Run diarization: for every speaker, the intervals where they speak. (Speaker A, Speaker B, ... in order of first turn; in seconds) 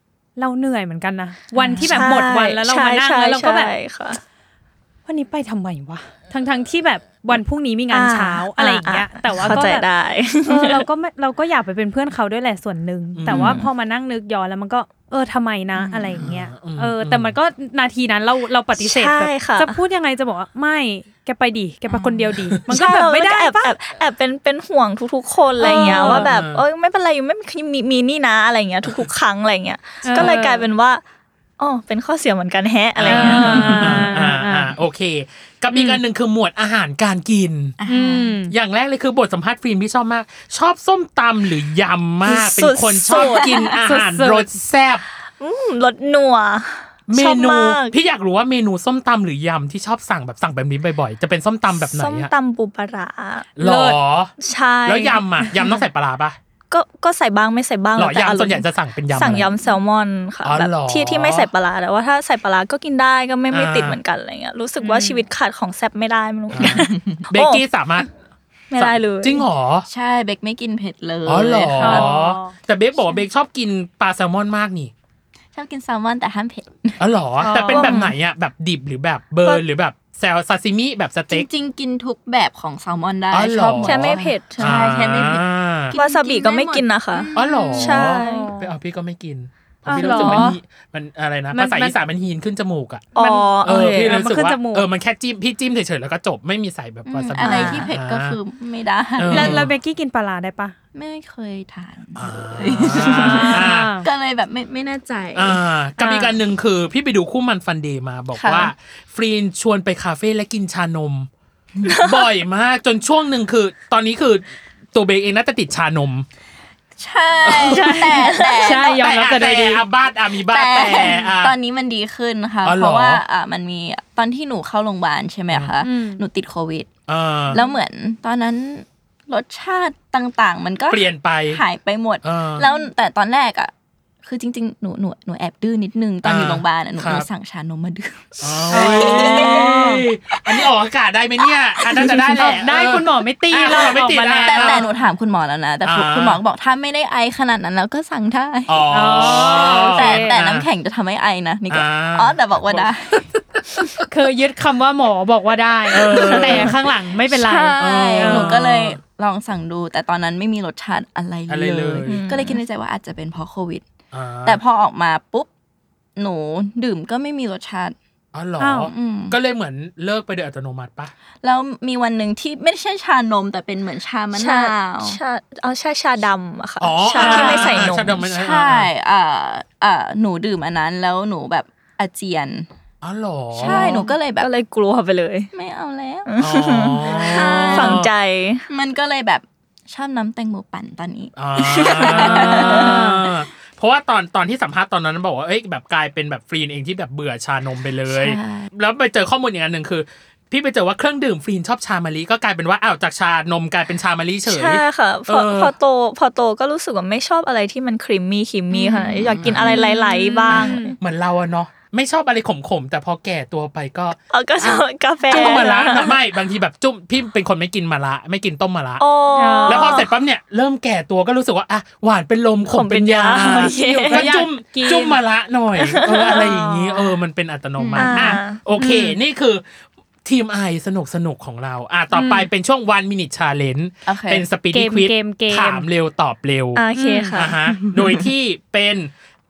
Speaker A: 0.4-3.7, 5.0-9.9, 10.4-23.7, 25.6-26.3, 30.0-30.7, 33.1-34.7, 35.7-36.0, 37.9-38.5, 43.9-44.5, 53.6-54.0, 64.8-65.2, 71.8-72.5, 77.4-78.0, 87.8-88.7, 89.9-90.5, 91.5-92.0, 93.2-94.9, 97.4-97.8, 99.3-100.7, 103.0-104.1, 106.0-106.3, 117.7-119.8, 125.8-126.2, 138.7-140.1, 142.0-144.9, 148.9-150.4, 154.1-158.5, 168.6-168.9, 192.7-193.2, 209.6-210.9, 215.3-215.8, 219.4-220.0, 223.3-225.2, 226.3-227.1, 228.8-229.2, 232.1-232.5, 234.7-235.9, 236.9-237.4
Speaker B: 1.6-2.1, 21.9-22.2, 25.7-26.1, 37.8-38.4, 43.1-43.5, 66.6-67.0, 69.9-72.1, 75.5-77.0, 81.3-88.0, 89.9-90.6, 97.0-99.6, 100.9-105.6, 108.3-108.7, 117.0-119.2, 120.5-126.9, 127.5-133.7, 134.2-140.7, 141.8-142.6, 144.4-153.2, 156.3-156.7, 157.3-163.8, 164.4-165.5, 166.2-167.9, 168.9-169.4, 171.4-175.2, 177.1-182.7, 183.6-184.5, 185.5-188.1, 188.7-193.3, 198.1-198.7, 208.7-209.6, 227.8-228.3, 234.1-234.4
Speaker C: 1.8-4.2, 7.9-10.8, 13.3-13.7, 15.8-16.2, 18.7-19.8, 22.7-31.0, 31.6-34.0, 42.3-43.5, 45.4-47.9, 51.8-53.5, 54.4-55.2, 56.7-67.6, 68.7-69.5, 77.7-78.1, 83.8-84.9, 85.9-88.5, 93.1-94.2, 111.8-112.2, 117.9-118.5, 162.1-162.6, 174.4-178.2, 183.6-185.5, 186.3-188.7, 191.7-192.5, 204.4-210.9, 214.3-216.1, 219.0-220.1, 222.7-224.3, 225.8-226.4, 227.9-228.6, 236.7-237.5
Speaker D: 13.1-13.6, 16.2-17.4, 25.8-26.6, 33.0-37.8, 38.5-45.0, 47.1-52.3, 53.6-54.3, 54.9-56.4, 58.0-59.5, 60.5-61.5, 63.5-64.0, 66.5-68.1, 68.8-69.9, 71.2-74.9, 77.0-81.5, 83.3-86.0, 87.3-93.0, 93.6-98.4, 99.2-99.7, 102.2-103.9, 105.4-111.3, 112.0-116.3, 117.5-117.8, 119.0-121.5, 122.6-123.2, 127.1-127.6, 130.9-131.6, 132.2-132.7, 136.2-137.3, 138.4-144.8, 145.8-146.4, 148.7-150.7, 151.7-154.0, 155.9-156.8, 157.8-159.0, 161.5-162.2, 164.1-164.6, 168.3-171.1, 176.8-178.9, 183.0-184.0, 186.4-188.1, 191.4-205.7, 209.4-209.8, 210.5-219.0, 219.7-229.6, 230.2-236.8, 237.4-239.1